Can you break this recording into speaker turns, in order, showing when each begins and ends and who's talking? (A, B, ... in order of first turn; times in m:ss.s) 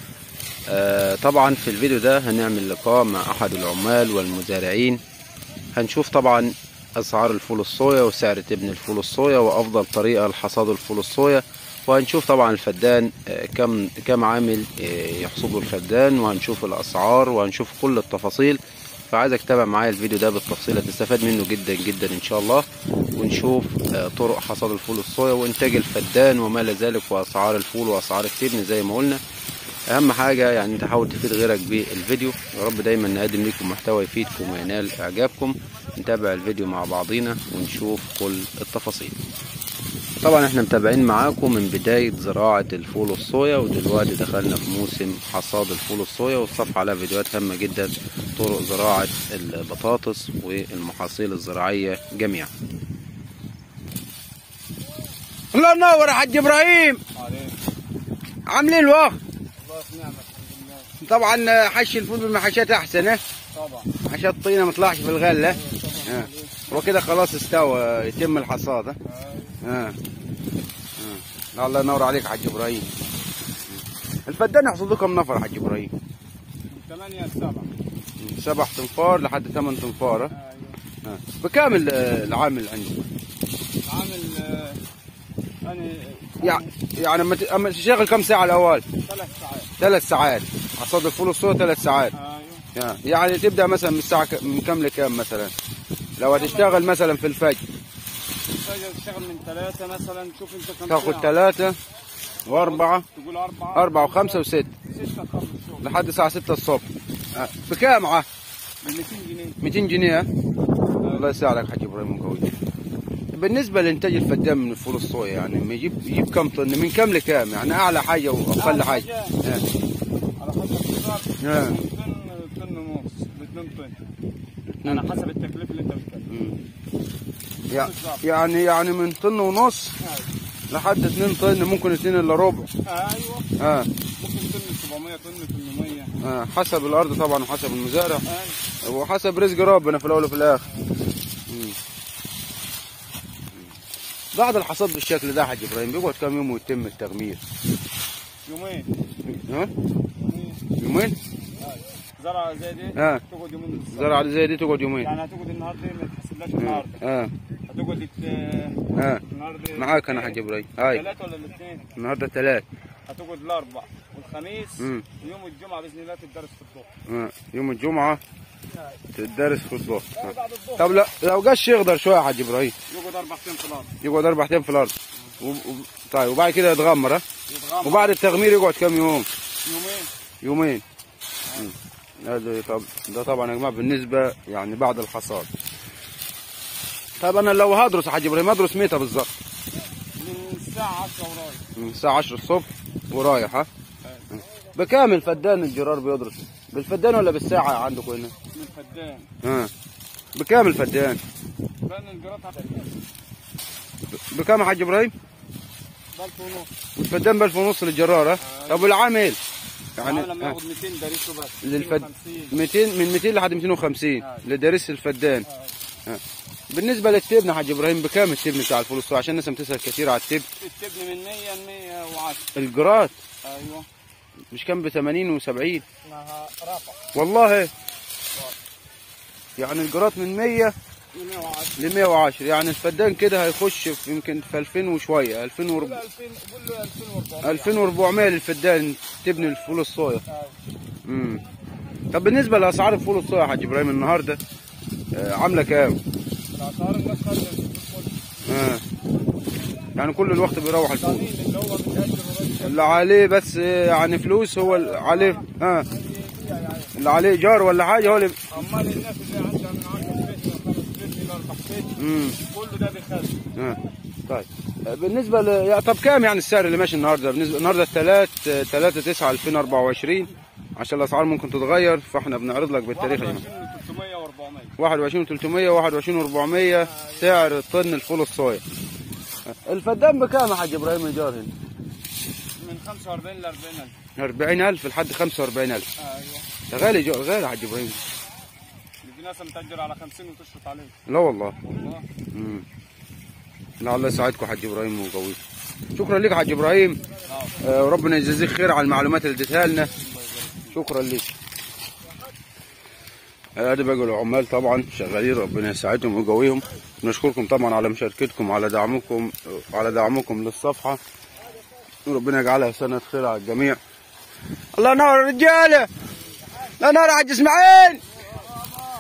0:00.7-0:05.0 A
0:05.8-0:18.6 A
0:19.1-0:29.2 A
0:29.9-0:39.2 A
0:40.2-0:52.5 A
0:55.5-0:57.0 A
0:57.2-0:57.6 B
0:58.5-0:59.2 A
0:59.6-1:00.9 B
1:01.0-1:03.2 A
1:03.5-1:03.9 B
1:04.0-1:09.0 A
1:05.4-1:06.8 B
1:09.0-1:09.6 B
1:09.6-1:10.0 A
1:11.0-1:13.0 A
1:14.3-1:15.9 A
1:16.7-1:17.7 B
1:18.2-1:20.3 A
1:20.3-1:20.8 B
1:21.0-1:23.0 A
1:23.8-1:24.8 B
1:25.6-1:26.7 B
1:26.4-1:28.8 A
1:29.0-1:29.7 B
1:29.8-1:32.1 A
1:32.1-1:32.7 B
1:32.7-1:35.5 A
1:36.2-1:37.6 A
1:36.2-1:36.9 B
1:38.5-1:41.4 B
1:40.9-1:41.8 A
1:42.5-1:43.0 A
1:42.5-1:46.0 B
1:43.8-1:44.7 A
1:45.8-1:48.3 A
1:48.8-1:49.6 B
1:49.6-1:50.3 A
1:51.0-1:51.3 B
1:51.1-1:52.6 A
1:53.3-1:59.7 A
1:58.6-1:59.4 B
2:00.4-2:04.0 B
2:01.4-2:01.8 A
2:04.8-2:05.1 A
2:04.8-2:06.3 B
2:06.3-2:06.6 A
2:07.7-2:10.0 A
2:07.7-2:08.2 B
2:10.0-2:10.3 B
2:10.7-2:12.7 A
2:12.8-2:13.5 B
2:13.6-2:13.9 A
2:14.2-2:16.2 B
2:16.2-2:18.2 A
2:18.2-2:18.6 B
2:18.8-2:20.6 A
2:20.7-2:21.0 B
2:21.5-2:21.8 A
2:24.3-2:27.4 A
2:28.5-2:28.9 B
2:29.2-2:29.7 A
2:30.2-2:30.6 B
2:30.8-2:31.2 A
2:31.6-2:34.3 B
2:33.0-2:33.2 A
2:33.9-2:35.1 A
2:35.0-2:37.0 B
2:36.6-2:37.3 A
2:37.7-2:41.9 B
2:39.0-2:39.2 A
2:39.8-2:41.0 A
2:42.0-2:42.6 A
2:43.1-2:46.9 B
2:44.8-2:45.1 A
2:47.1-2:48.2 A
2:49.1-2:52.7 A
2:50.2-2:51.1 B
2:52.9-2:54.0 B
2:54.0-2:57.2 A
2:57.5-2:58.3 B
2:57.8-2:59.3 A
2:59.6-3:00.1 B
3:00.4-3:00.8 A
3:01.5-3:01.7 B
3:01.6-3:05.5 A
3:07.2-3:09.3 A
3:10.2-3:11.6 B
3:11.8-3:13.7 A
3:14.0-3:14.4 B
3:14.8-3:18.3 A
3:18.5-3:19.3 B
3:19.4-3:19.7 A
3:20.4-3:21.2 A
3:21.8-3:22.9 B
3:24.1-3:25.1 A
3:26.2-3:26.7 B
3:27.0-3:29.4 A
3:28.4-3:28.9 B
3:30.0-3:30.6 A
3:30.0-3:32.6 B
3:31.6-3:35.5 A
3:34.2-3:34.4 B
3:35.4-3:35.7 B
3:36.1-3:40.5 A
3:40.6-3:42.6 B
3:42.6-3:43.1 A
3:43.4-3:43.9 B
3:44.5-3:45.8 A
3:46.0-3:47.0 B
3:47.1-3:47.7 A
3:49.6-3:50.7 A
3:51.1-3:51.9 B
3:51.8-3:56.0 A
3:55.7-3:57.9 B
3:57.4-4:00.2 A
4:00.3-4:00.6 B
4:01.0-4:01.4 A
4:02.1-4:04.4 A
4:05.1-4:06.0 A
4:06.5-4:08.3 B
4:08.5-4:08.8 A
4:10.0-4:11.3 A
4:10.8-4:13.1 B
4:12.6-4:15.9 A
4:14.6-4:17.0 B
4:17.0-4:18.5 A
4:18.0-4:23.4 B
4:22.0-4:22.4 A
4:23.6-4:33.4 A
4:32.9-4:34.7 B
4:34.8-4:38.6 A
4:36.7-4:37.4 B
4:39.6-4:41.5 A
4:42.6-4:44.0 B
4:44.2-4:45.9 A
4:46.0-4:46.5 B
4:46.7-4:48.0 A
4:49.0-4:51.0 B
4:51.1-4:51.6 A
4:51.6-4:52.1 B
4:52.3-4:52.6 A
4:53.8-4:55.4 A
4:56.0-4:57.0 A
4:57.3-4:57.6 B
4:57.6-4:59.9 A
5:00.0-5:00.8 B
5:00.7-5:01.3 A
5:03.6-5:11.0 A
5:12.1-5:13.8 A
5:14.7-5:15.9 A
5:16.8-5:18.0 A